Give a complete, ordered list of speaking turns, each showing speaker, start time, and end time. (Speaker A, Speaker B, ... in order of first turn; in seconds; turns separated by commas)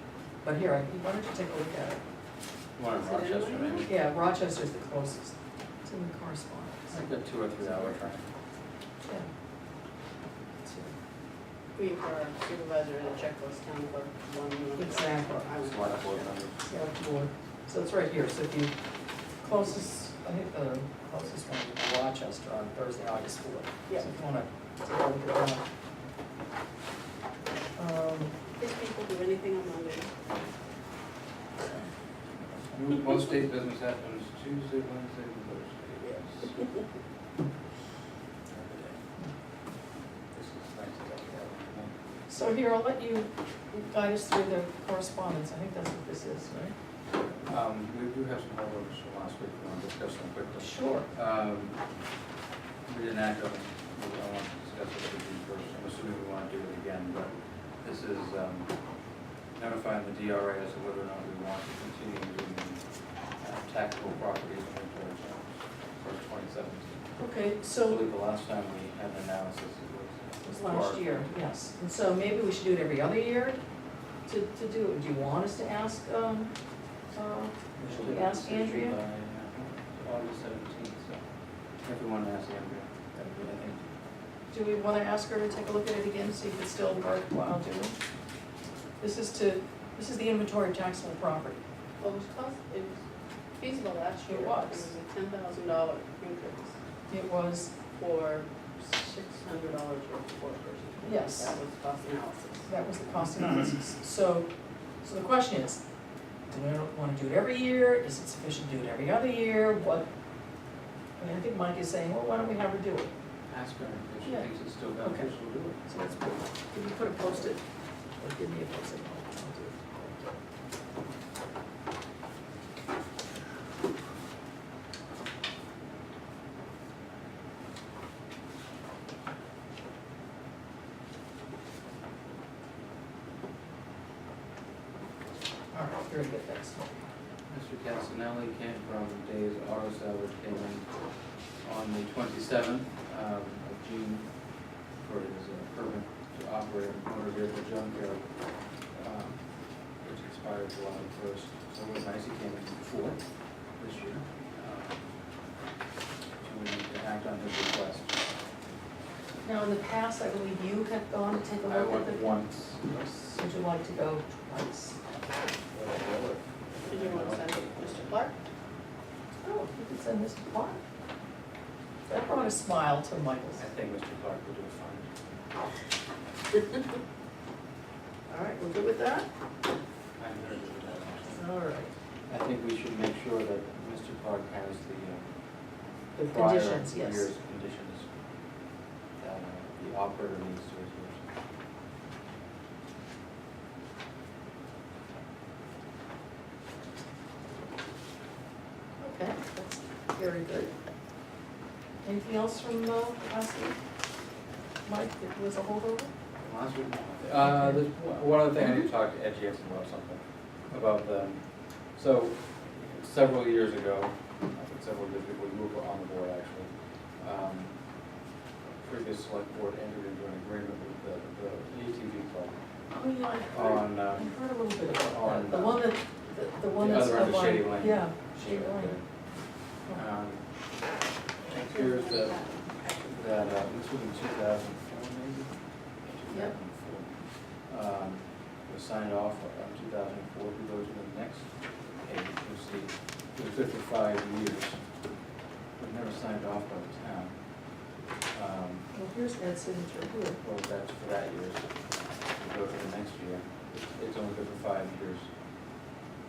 Speaker A: 0.4-2.0, Speaker B: 2.8-3.9, Speaker C: 3.0-3.9, Speaker A: 3.8-7.9, Speaker B: 6.9-8.3, Speaker A: 9.0-9.3, Speaker A: 10.6-10.9, Speaker C: 11.7-16.4, Speaker A: 14.8-15.5, Speaker B: 15.6-16.7, Speaker A: 16.7-18.7, Speaker A: 19.4-25.7, Speaker A: 27.8-28.4, Speaker C: 28.6-30.1, Speaker B: 32.7-36.6, Speaker B: 38.5-39.0, Speaker B: 40.3-41.9, Speaker A: 42.3-46.8, Speaker B: 47.5-51.8, Speaker A: 50.6-51.1, Speaker B: 52.9-58.7, Speaker B: 59.6-62.8, Speaker B: 63.4-67.1, Speaker A: 67.2-68.0, Speaker B: 67.8-71.3, Speaker A: 70.4-73.6, Speaker A: 74.3-76.5, Speaker A: 77.1-79.0, Speaker B: 77.8-81.2, Speaker B: 81.8-83.8, Speaker A: 83.2-83.5, Speaker A: 84.5-88.0, Speaker A: 89.0-91.6, Speaker C: 92.0-93.0, Speaker C: 93.6-96.7, Speaker A: 94.2-94.9, Speaker A: 97.1-97.7, Speaker C: 98.0-102.7, Speaker A: 101.0-101.6, Speaker A: 102.7-104.5, Speaker A: 105.0-105.8, Speaker A: 106.5-110.1, Speaker A: 111.2-113.1, Speaker B: 113.5-115.8, Speaker A: 114.2-114.5, Speaker A: 115.0-117.6, Speaker A: 118.2-120.1, Speaker A: 135.7-136.9, Speaker B: 137.5-140.9, Speaker B: 141.6-144.3, Speaker B: 145.0-148.3, Speaker B: 148.9-149.4, Speaker B: 150.0-153.2, Speaker B: 153.8-155.0, Speaker B: 156.4-158.2, Speaker A: 159.4-162.4, Speaker B: 161.7-163.2, Speaker A: 163.1-165.0, Speaker B: 165.7-168.1, Speaker C: 166.8-168.4, Speaker A: 169.4-170.8, Speaker A: 172.1-173.7, Speaker B: 173.6-175.1, Speaker A: 178.3-179.3, Speaker B: 180.2-181.4, Speaker A: 181.3-181.9, Speaker B: 182.3-185.2, Speaker A: 186.2-187.3, Speaker B: 186.2-188.1, Speaker B: 189.2-191.2, Speaker A: 199.0-200.7, Speaker A: 202.0-203.8, Speaker A: 204.8-206.1, Speaker B: 206.4-211.4, Speaker A: 207.5-207.8, Speaker B: 211.9-217.8, Speaker B: 218.8-222.6, Speaker A: 222.9-229.0, Speaker B: 223.5-224.4, Speaker B: 225.0-225.8, Speaker B: 226.7-229.0, Speaker B: 229.9-230.5, Speaker B: 231.5-232.4, Speaker B: 233.0-235.5, Speaker B: 236.0-237.1, Speaker A: 236.3-236.6, Speaker B: 237.7-244.8, Speaker B: 245.8-247.3, Speaker B: 248.3-248.8, Speaker A: 248.9-250.4, Speaker B: 250.4-251.7, Speaker B: 252.4-255.3